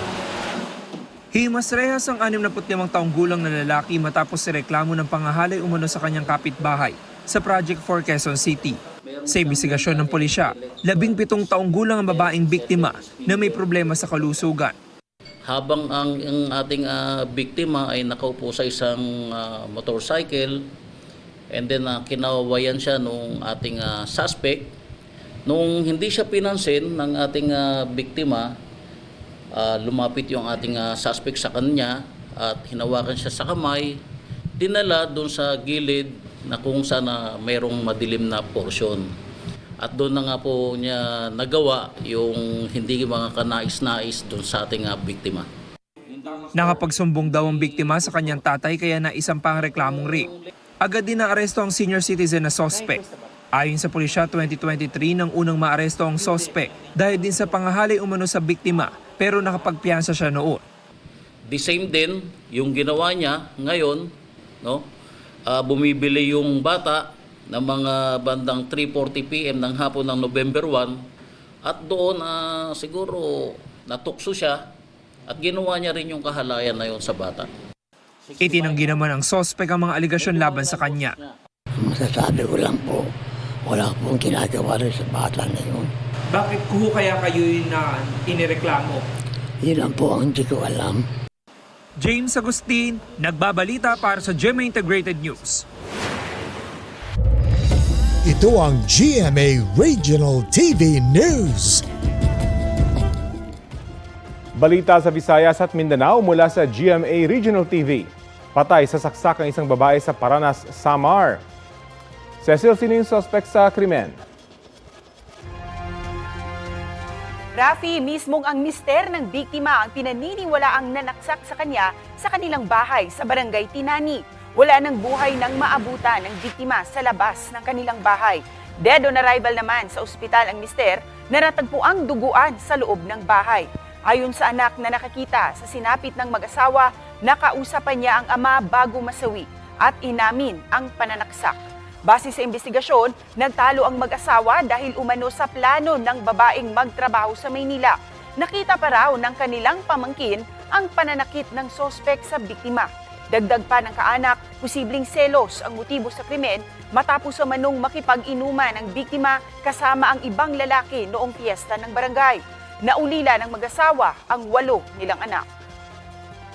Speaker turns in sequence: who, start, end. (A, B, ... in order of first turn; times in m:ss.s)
0:01.3-0:14.7 A
0:09.4-0:10.3 B
0:12.0-0:13.2 B
0:15.4-0:20.7 B
0:21.5-0:24.7 B
0:25.5-0:28.5 B
0:29.5-0:34.0 B
0:34.6-0:39.0 B
0:39.8-0:45.5 B
0:46.5-0:50.3 A
0:50.8-0:53.0 A
0:53.5-1:00.6 A
1:01.5-1:04.1 B
1:04.6-1:04.9 B
1:05.5-1:11.0 B
1:11.6-1:14.6 B
1:15.3-1:17.5 B
1:18.4-1:21.2 A
1:21.8-1:23.1 C
1:23.7-1:25.9 C
1:26.3-1:29.0 A
1:29.6-1:31.0 C
1:32.0-1:35.6 A
1:38.3-1:41.8 D
1:44.6-1:51.4 E
1:52.4-1:54.2 E
1:57.5-2:21.5 F
2:22.0-2:45.4 F